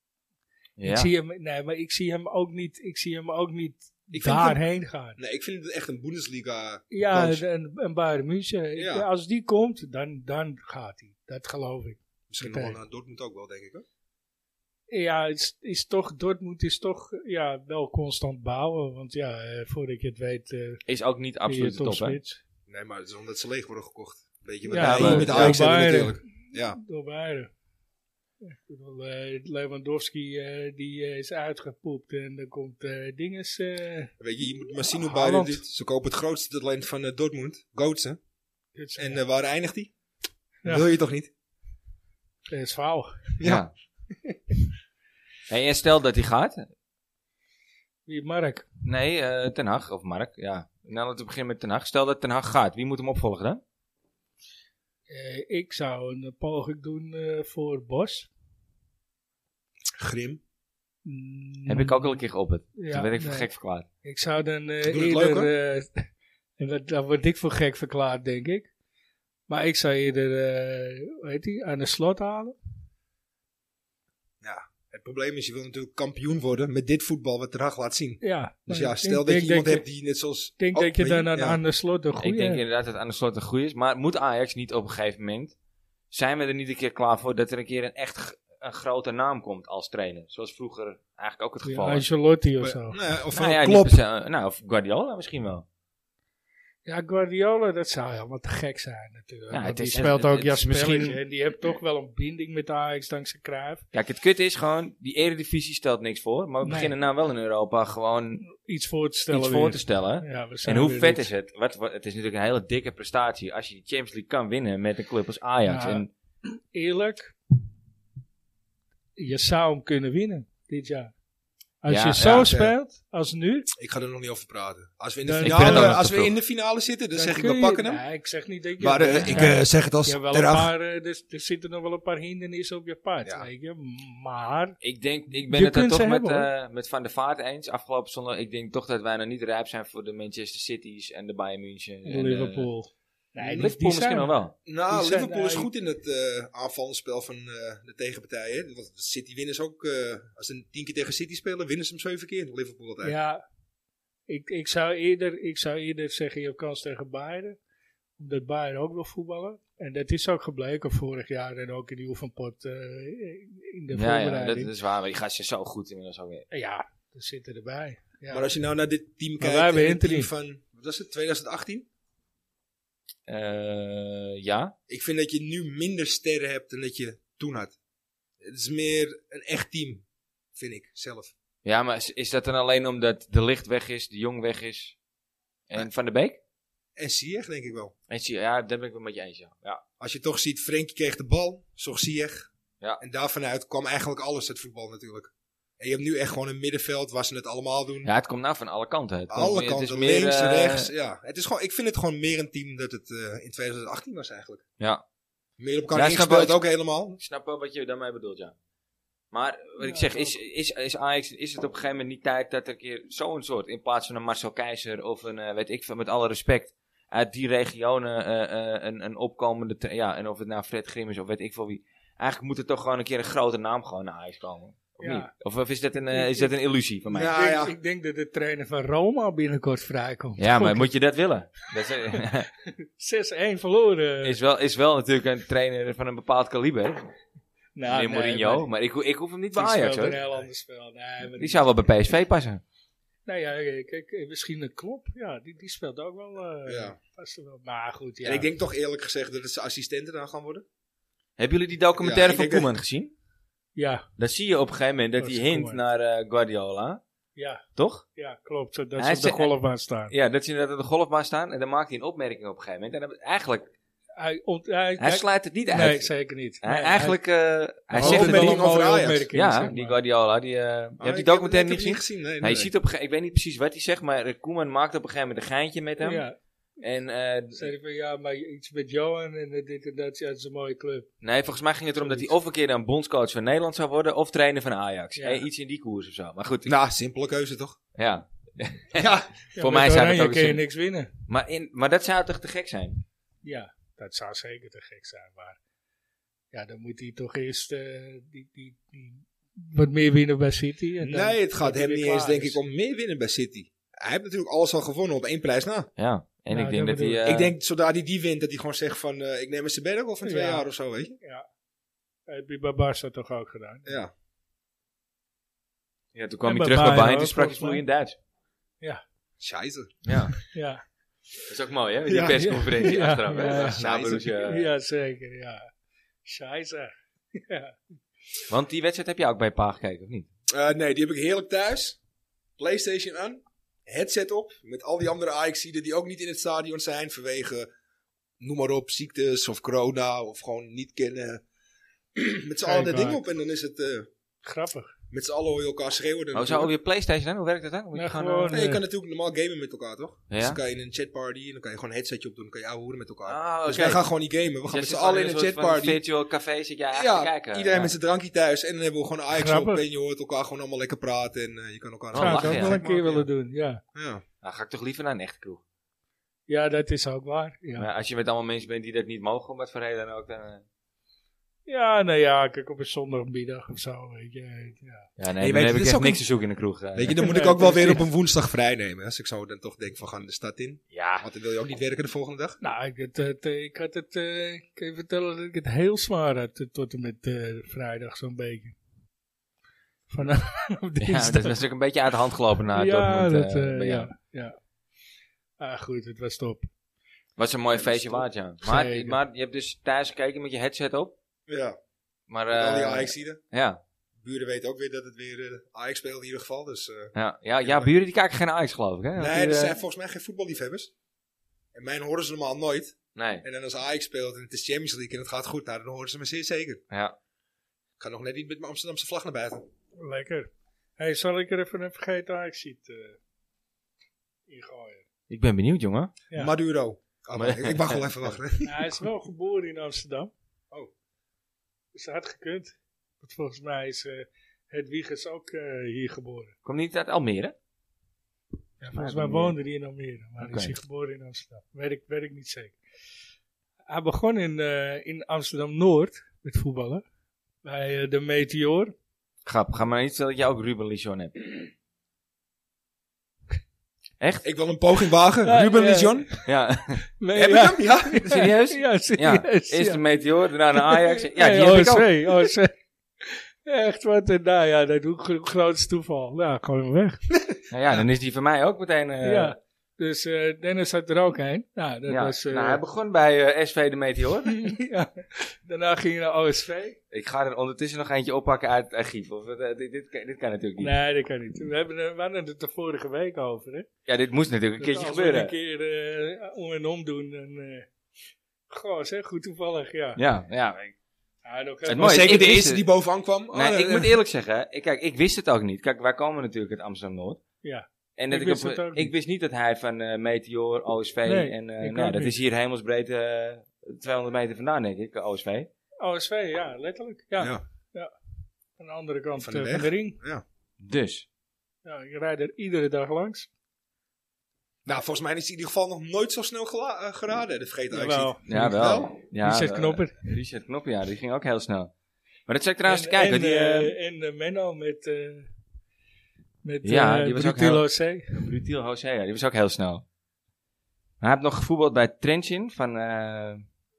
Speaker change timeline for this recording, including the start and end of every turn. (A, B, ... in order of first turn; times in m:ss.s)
0:00.8-0:01.1 A
0:00.8-0:05.2 B
0:04.1-0:04.6 C
0:05.2-0:07.4 C
0:06.9-0:12.8 B
0:08.8-0:09.0 C
0:12.3-0:13.8 C
0:14.9-0:20.8 B
0:20.8-0:22.2 A
0:21.5-0:22.4 B
0:22.7-0:26.8 C
0:24.7-0:27.5 B
0:24.7-0:25.6 A
0:28.4-0:34.1 B
0:34.2-0:38.2 C
0:34.8-0:35.6 B
0:38.8-0:39.2 B
0:39.0-0:39.9 C
0:40.6-0:41.3 C
0:42.5-0:43.4 B
0:43.4-0:43.6 C
0:43.4-0:43.7 A
0:45.5-0:46.7 A
0:48.1-0:48.7 B
0:48.8-0:53.6 A
0:55.1-0:58.3 B
1:00.0-1:00.4 C
1:01.0-1:02.2 B
1:01.7-1:03.8 A
1:02.8-1:03.5 B
1:04.0-1:06.0 B
1:04.8-1:05.5 C
1:06.6-1:08.7 B
1:09.5-1:12.6 B
1:14.4-1:21.6 C
1:18.2-1:19.8 B
1:20.6-1:22.6 B
1:22.2-1:25.5 A
1:26.1-1:32.0 A
1:31.6-1:33.0 B
1:32.6-1:34.0 C
1:33.3-1:35.6 A
1:36.8-1:43.8 B
1:39.5-1:41.2 A
1:43.9-1:48.4 A
1:46.6-1:46.9 B
1:48.4-1:51.3 B
1:49.3-1:56.1 A
1:55.7-1:57.3 B
1:59.2-2:01.1 B
2:01.8-2:03.7 B
2:01.9-2:02.5 A
2:02.4-2:02.7 C
2:03.7-2:08.0 C
2:05.2-2:06.0 B
2:05.4-2:06.3 A
2:07.1-2:14.8 B
2:08.8-2:10.7 C
2:14.8-2:22.7 A
2:15.5-2:16.5 B
2:22.0-2:24.3 B
2:23.4-2:24.5 A
2:24.6-2:33.1 C
2:24.9-2:25.7 B
2:33.0-2:33.4 B
2:34.3-2:37.6 B
2:38.2-2:44.7 B
2:43.9-2:46.4 A
2:46.5-2:48.5 B
2:48.3-2:51.9 C
2:49.4-2:50.3 B
2:53.3-2:54.7 A
2:54.9-2:57.8 C
2:58.4-3:00.0 C
3:00.5-3:01.3 C
3:01.6-3:05.0 A
3:05.7-3:06.4 A
3:07.0-3:07.9 C
3:08.1-3:09.8 A
3:10.0-3:18.1 C
3:18.0-3:20.9 A
3:19.3-3:24.6 C
3:24.8-3:25.0 A
3:25.6-3:27.2 C
3:25.9-3:26.6 A
3:27.2-3:28.5 A
3:29.3-3:47.4 A
3:29.8-3:30.3 B
3:45.0-3:45.3 B
3:46.1-3:46.5 B
3:47.1-3:47.7 C
3:47.2-3:50.9 B
3:50.4-3:52.5 A
3:52.1-3:54.4 B
3:54.2-3:57.1 A
3:57.7-3:58.7 B
3:57.9-4:00.2 A
3:59.5-4:01.6 B
4:01.3-4:02.6 A
4:03.2-4:08.5 B
4:06.6-4:07.0 C
4:08.2-4:10.6 C
4:11.4-4:13.1 A
4:12.0-4:12.7 C
4:13.8-4:14.1 B
4:14.2-4:17.0 A
4:15.2-4:15.8 B
4:17.4-4:17.6 B
4:17.8-4:18.0 A
4:18.1-4:20.1 B
4:19.0-4:19.5 A
4:20.1-4:23.7 A
4:24.2-4:27.2 B
4:25.0-4:26.1 A
4:26.6-4:28.7 A
4:27.9-4:30.0 B
4:28.0-4:29.3 C
4:29.3-4:36.2 A
4:31.0-4:32.7 C
4:36.0-4:36.3 B
4:36.8-4:37.7 A
4:37.5-4:41.1 B
4:41.2-4:46.7 A
4:42.0-4:42.3 B
4:45.2-4:45.4 B
4:46.6-4:47.8 C
4:47.9-4:50.6 A
4:48.9-4:49.3 C
4:49.5-4:51.1 B
4:51.3-4:53.0 A
4:53.4-4:55.6 B
4:56.5-5:02.6 B
5:01.0-5:05.9 C
5:06.0-5:07.5 A
5:06.5-5:07.2 B
5:07.2-5:11.2 C
5:10.2-5:10.6 B
5:11.2-5:11.4 B
5:12.3-5:13.9 B
5:13.8-5:14.1 C
5:16.1-5:18.2 A
5:16.4-5:17.8 B
5:19.4-5:20.4 C
5:20.0-5:20.3 A
5:20.5-5:20.8 B
5:21.5-5:24.7 A
5:22.1-5:22.5 C
5:22.3-5:25.7 B
5:23.4-5:24.3 C
5:26.2-5:27.8 B
5:28.5-5:30.3 A
5:30.5-5:32.0 C
5:32.6-5:37.7 C
5:38.4-5:41.4 C
5:42.1-5:44.1 C
5:42.6-5:43.2 B
5:44.4-5:44.9 B
5:45.1-5:46.7 C
5:46.3-5:48.6 A
5:47.9-5:48.8 B
5:48.5-5:56.0 C
5:50.3-5:50.6 A
5:53.3-5:54.0 A
5:54.7-5:57.9 A
5:56.9-6:03.2 C
5:59.3-5:59.8 B
6:02.1-6:03.2 A
6:02.1-6:03.8 B
6:03.9-6:04.2 C
6:04.4-6:05.6 A
6:06.5-6:07.9 B
6:07.8-6:10.6 A
6:11.6-6:15.1 B
6:15.2-6:17.3 A
6:15.4-6:16.2 C
6:16.9-6:22.6 C
6:17.2-6:18.0 B
6:20.9-6:21.3 A
6:22.6-6:28.7 B
6:30.1-6:31.6 B
6:31.0-6:34.1 A
6:32.7-6:34.6 B
6:35.6-6:36.7 B
6:37.4-6:41.1 A
6:37.8-6:38.2 C
6:38.6-6:39.2 B
6:41.5-6:41.8 C
6:42.3-6:43.8 A
6:42.5-6:43.4 C
6:44.2-6:47.9 C
6:47.1-6:49.8 A
6:49.2-6:50.9 C
6:51.7-6:56.8 C
6:53.1-6:53.4 A
6:56.9-6:57.2 A
6:58.0-6:59.6 C
7:00.0-7:03.2 B
7:04.5-7:05.0 B
7:05.3-7:06.1 A
7:06.3-7:09.0 C
7:07.4-7:08.3 A
7:08.6-7:10.3 B
7:11.9-7:16.5 B
7:16.6-7:17.5 A
7:18.8-7:22.8 B
7:18.9-7:19.6 A
7:20.4-7:20.7 A
7:23.9-7:27.0 B
7:27.6-7:28.9 B
7:29.4-7:31.6 A
7:34.2-7:34.4 A
7:34.4-7:36.3 C
7:35.4-7:36.4 B
7:36.4-7:37.0 A
7:37.2-7:40.0 B
7:37.3-7:38.3 C
7:38.2-7:42.3 A
7:40.7-7:47.2 B
7:47.7-7:49.5 A
7:49.2-7:52.8 B
7:52.1-7:54.6 A
7:54.4-7:57.0 B
7:57.1-8:00.9 A
8:00.8-8:03.9 B
8:04.1-8:05.5 A
8:04.8-8:07.9 B
8:08.7-8:10.2 B
8:10.2-8:10.9 A
8:11.4-8:12.5 B
8:11.8-8:12.8 A
8:11.9-8:14.2 C
8:13.5-8:17.4 A
8:17.6-8:19.1 B
8:18.2-8:25.7 A
8:21.2-8:22.3 B
8:26.0-8:28.1 B
8:28.8-8:30.2 B
8:29.4-8:30.4 C
8:30.8-8:31.2 A
8:31.8-8:33.5 B
8:34.8-8:39.1 C
8:37.9-8:40.2 B
8:38.4-8:41.9 A
8:42.5-8:43.9 A
8:42.8-8:45.5 B
8:46.6-8:48.4 B
8:46.8-8:50.0 A
8:51.2-8:53.6 A